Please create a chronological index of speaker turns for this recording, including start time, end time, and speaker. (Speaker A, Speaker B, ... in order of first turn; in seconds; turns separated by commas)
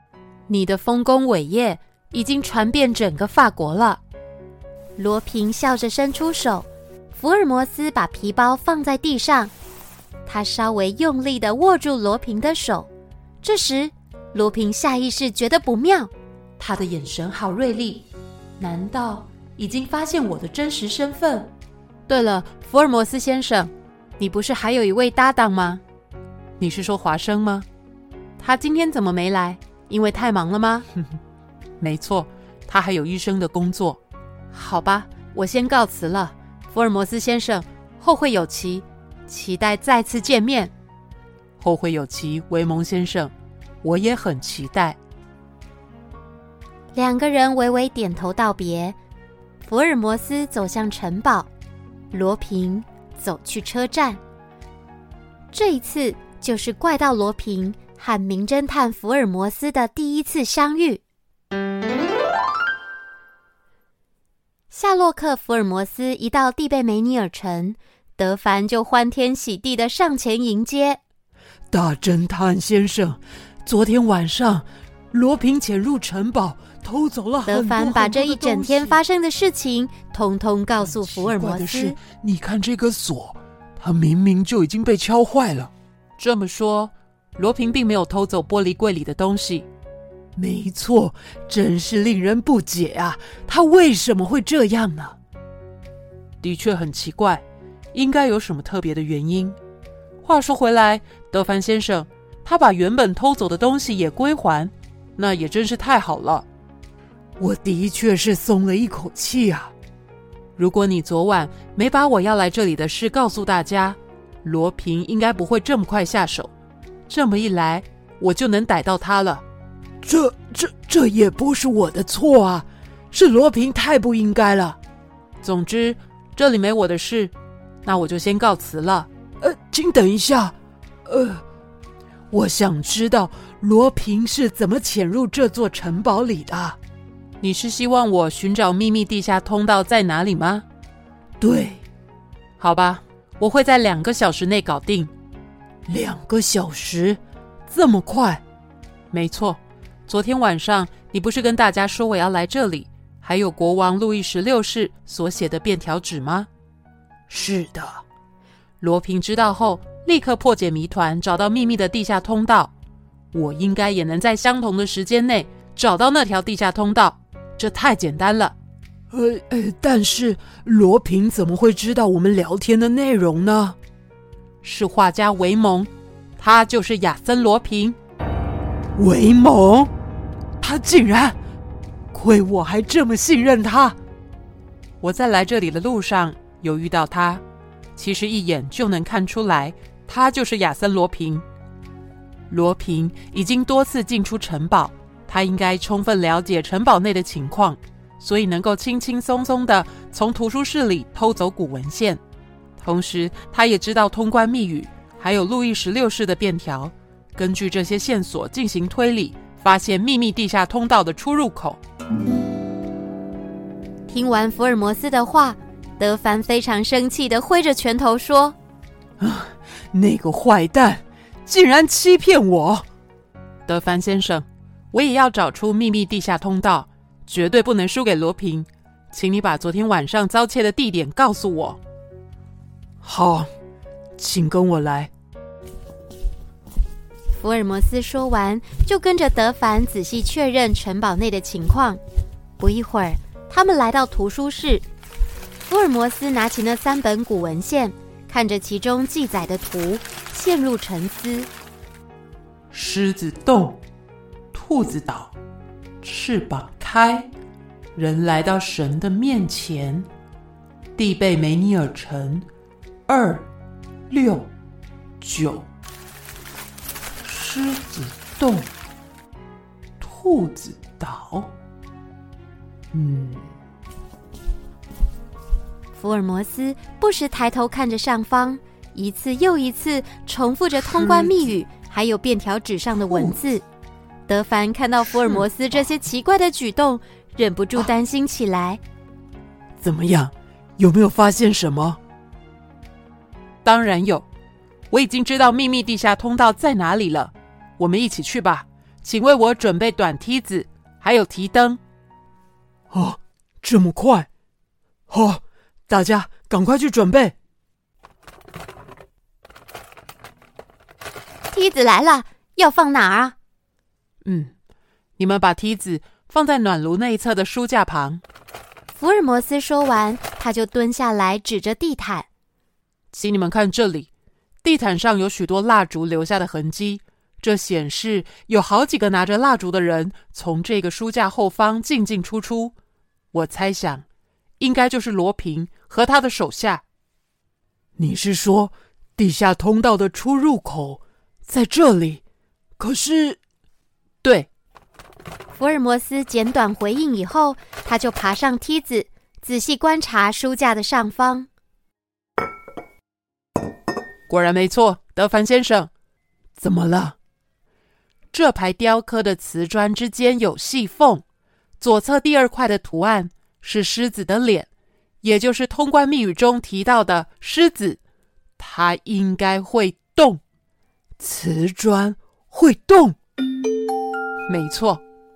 Speaker A: 0.5-4.0, Speaker B: 5.0-9.5, Speaker B: 10.3-12.9, Speaker B: 13.4-16.1, Speaker A: 16.6-18.0, Speaker A: 18.6-21.5, Speaker B: 22.1-25.8, Speaker A: 26.6-27.7, Speaker B: 28.4-30.9, Speaker A: 31.8-34.0, Speaker B: 34.5-40.7, Speaker A: 41.6-43.3, Speaker A: 43.8-45.0, Speaker B: 46.9-49.0, Speaker B: 49.6-51.5, Speaker B: 52.1-54.2, Speaker B: 55.5-61.0, Speaker B: 64.7-71.0, Speaker C: 71.7-79.0, Speaker B: 77.5-82.0, Speaker C: 81.0-85.7, Speaker A: 86.2-89.7, Speaker C: 90.4-95.2, Speaker A: 96.4-97.4, Speaker A: 97.9-99.6, Speaker A: 100.2-106.5, Speaker C: 107.4-109.7, Speaker A: 110.6-116.5, Speaker A: 117.1-119.4, Speaker C: 120.0-124.8, Speaker A: 125.4-127.3, Speaker A: 127.8-129.1, Speaker C: 129.4-131.4, Speaker C: 132.3-136.8, Speaker A: 137.4-140.7, Speaker C: 141.4-141.8, Speaker A: 142.6-145.1, Speaker C: 145.9-148.4, Speaker A: 149.1-156.5, Speaker C: 157.3-158.0, Speaker A: 158.8-162.7, Speaker A: 163.3-168.6, Speaker C: 169.1-173.8, Speaker A: 174.6-178.0, Speaker C: 179.0-179.9, Speaker C: 180.6-181.4, Speaker C: 182.1-184.0, Speaker A: 185.0-187.4, Speaker A: 188.0-191.4, Speaker A: 192.5-202.2, Speaker A: 202.8-211.8, Speaker B: 214.1-218.6, Speaker C: 219.2-222.9, Speaker A: 223.7-231.8, Speaker C: 233.0-233.5, Speaker C: 234.2-235.1, Speaker B: 237.3-242.0, Speaker B: 242.6-244.8, Speaker B: 245.7-251.5, Speaker A: 252.7-253.8, Speaker A: 254.5-255.3, Speaker A: 256.0-257.3, Speaker A: 258.0-260.1, Speaker A: 261.0-262.5, Speaker A: 263.1-263.5, Speaker A: 264.1-264.5, Speaker A: 265.2-265.7, Speaker A: 267.2-268.7, Speaker A: 270.0-271.5, Speaker A: 272.9-273.5, Speaker B: 275.9-283.6, Speaker B: 284.3-288.8, Speaker C: 289.8-292.0, Speaker A: 293.6-294.2, Speaker A: 294.9-301.8, Speaker C: 302.9-304.3, Speaker C: 305.1-307.4, Speaker B: 311.5-313.4, Speaker A: 314.2-314.5, Speaker A: 315.2-318.2, Speaker B: 318.9-322.3, Speaker A: 323.1-324.1, Speaker A: 324.6-332.7, Speaker A: 333.3-334.0, Speaker A: 334.6-336.8, Speaker C: 338.0-342.2, Speaker C: 342.8-343.4, Speaker B: 345.6-351.5, Speaker A: 354.3-355.9, Speaker C: 356.6-357.2, Speaker A: 358.3-361.2, Speaker A: 361.8-364.7, Speaker A: 365.2-368.0, Speaker A: 368.6-370.4, Speaker C: 371.2-373.2, Speaker A: 374.5-375.0